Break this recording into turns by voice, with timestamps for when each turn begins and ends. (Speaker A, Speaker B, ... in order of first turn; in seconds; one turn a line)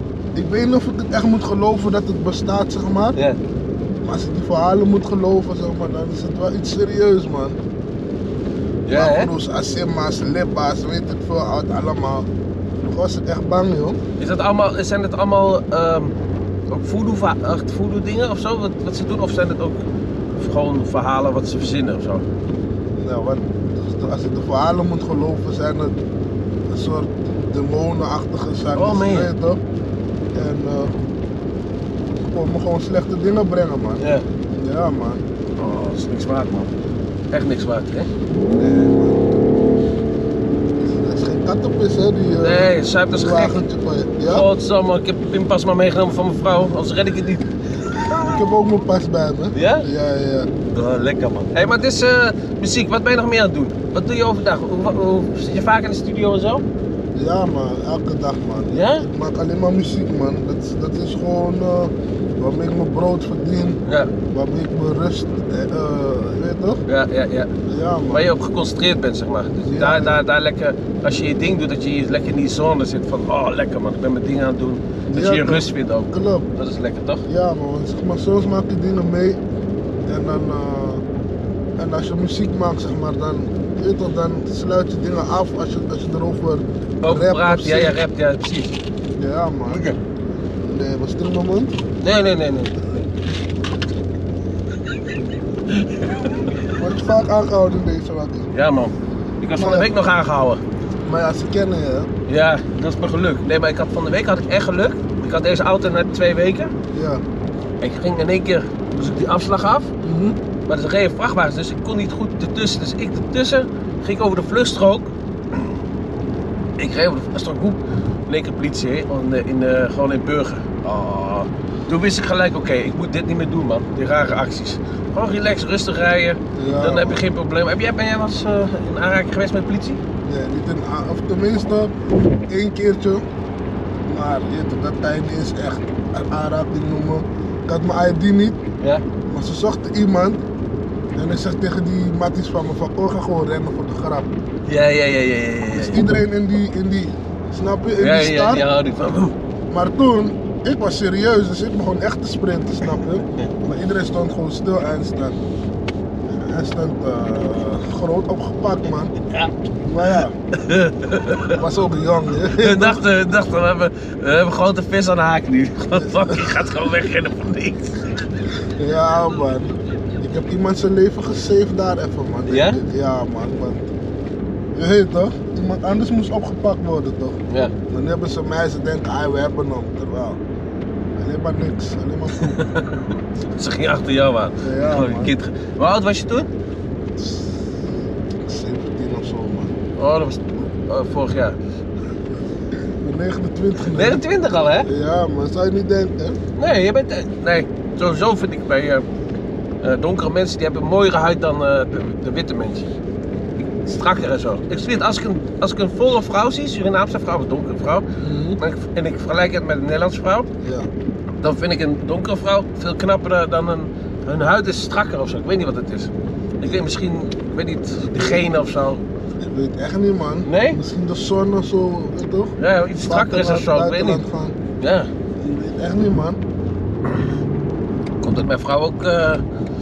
Speaker A: 0.4-3.2
Speaker A: 4.0-7.6
Speaker B: 8.9-9.3
Speaker A: 8.9-12.3
Speaker A: 12.8-14.0
Speaker B: 14.2-16.1
Speaker B: 16.7-19.8
Speaker B: 20.4-22.2
Speaker A: 23.0-26.0
Speaker A: 26.7-29.6
Speaker B: 28.8-29.3
Speaker A: 30.4-30.9
Speaker A: 32.2-35.2
Speaker B: 34.0-34.3
Speaker B: 35.6-36.7
Speaker B: 37.3-38.1
Speaker A: 38.5-39.3
Speaker A: 40.8-44.5
Speaker B: 42.4-43.6
Speaker B: 44.3-48.4
Speaker A: 48.1-50.5
Speaker B: 49.5-49.9
Speaker B: 50.7-56.6
Speaker A: 57.1-63.8
Speaker B: 58.7-59.1
Speaker B: 63.9-64.1
Speaker A: 64.3-66.8
Speaker B: 66.9-67.5
Speaker A: 67.7-68.3
Speaker B: 68.1-77.2
Speaker A: 69.7-70.2
Speaker A: 75.1-76.5
Speaker A: 77.3-79.4
Speaker A: 80.1-81.0
Speaker A: 81.8-88.0
Speaker B: 87.0-88.8
Speaker A: 89.2-89.8
Speaker B: 89.7-90.0
Speaker A: 90.6-91.8
Speaker B: 92.0-92.8
Speaker B: 95.7-96.5
Speaker A: 96.7-98.5
Speaker B: 98.5-100.6
Speaker A: 99.5-99.9
Speaker A: 101.0-102.1
Speaker B: 102.3-106.7
Speaker A: 106.9-107.2
Speaker B: 107.8-109.9
Speaker A: 110.0-110.4
Speaker B: 110.7-115.7
Speaker B: 116.8-130.0
Speaker A: 126.5-127.2
Speaker A: 130.2-131.9
Speaker A: 132.5-133.2
Speaker A: 134.1-138.6
Speaker A: 139.3-140.4
Speaker A: 141.2-144.4
Speaker B: 144.7-146.1
Speaker A: 145.7-148.7
Speaker B: 148.0-149.3
Speaker A: 149.7-155.4
Speaker A: 156.4-159.1
Speaker A: 159.8-160.4
Speaker B: 160.5-161.6
Speaker A: 161.6-163.0
Speaker B: 162.6-168.2
Speaker A: 166.0-166.4
Speaker A: 168.8-173.9
Speaker B: 172.5-172.8
Speaker A: 174.8-180.4
Speaker A: 181.2-182.6
Speaker B: 182.4-186.5
Speaker A: 184.6-185.3
Speaker A: 187.2-187.6
Speaker A: 188.4-189.8
Speaker B: 190.0-191.6
Speaker A: 193.0-194.2
Speaker B: 193.8-194.9
Speaker A: 194.8-196.4
Speaker B: 196.6-199.1
Speaker B: 199.8-202.9
Speaker B: 203.6-208.1
Speaker A: 208.2-208.6
Speaker B: 208.6-210.5
Speaker A: 210.6-210.9
Speaker B: 211.4-219.0
Speaker A: 219.4-224.6
Speaker B: 220.5-220.8
Speaker B: 222.6-224.2
Speaker B: 224.8-225.1
Speaker A: 225.4-226.4
Speaker B: 228.2-229.4